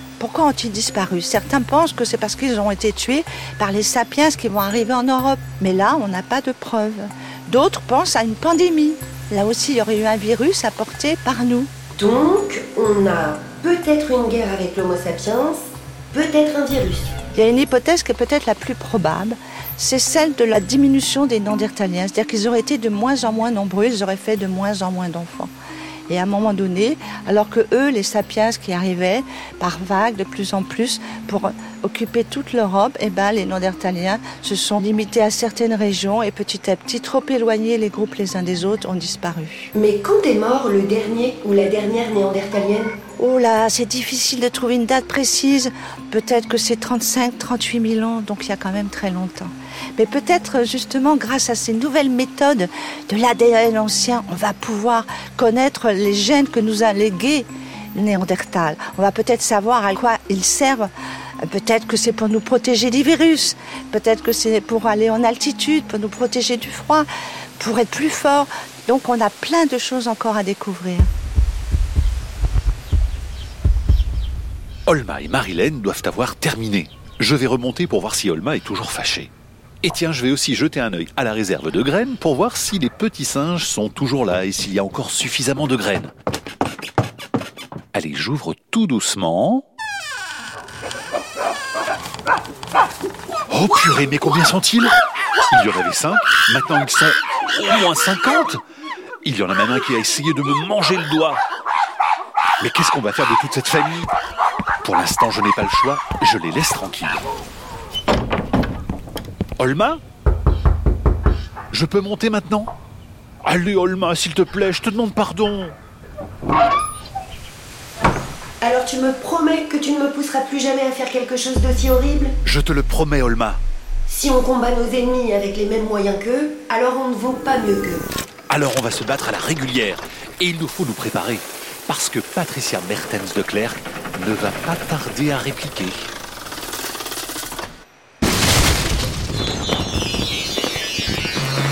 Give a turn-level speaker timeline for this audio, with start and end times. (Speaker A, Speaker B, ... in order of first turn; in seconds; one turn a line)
Speaker A: 0.2-11.7
Speaker B: 12.0-17.1
Speaker A: 17.3-25.5
Speaker A: 26.1-39.7
Speaker B: 39.7-43.0
Speaker A: 43.2-60.9
Speaker A: 61.4-67.1
Speaker A: 67.6-71.1
Speaker C: 74.9-79.3
Speaker C: 79.8-86.1
Speaker C: 87.9-89.6
Speaker C: 93.5-94.9
Speaker C: 95.5-98.6
Speaker C: 99.2-101.4
Speaker C: 102.6-104.1
Speaker C: 104.8-107.2
Speaker C: 109.6-110.0
Speaker C: 111.7-112.7
Speaker C: 113.5-115.8
Speaker B: 118.6-122.3
Speaker C: 122.4-123.6
Speaker B: 124.1-128.1
Speaker C: 128.5-136.1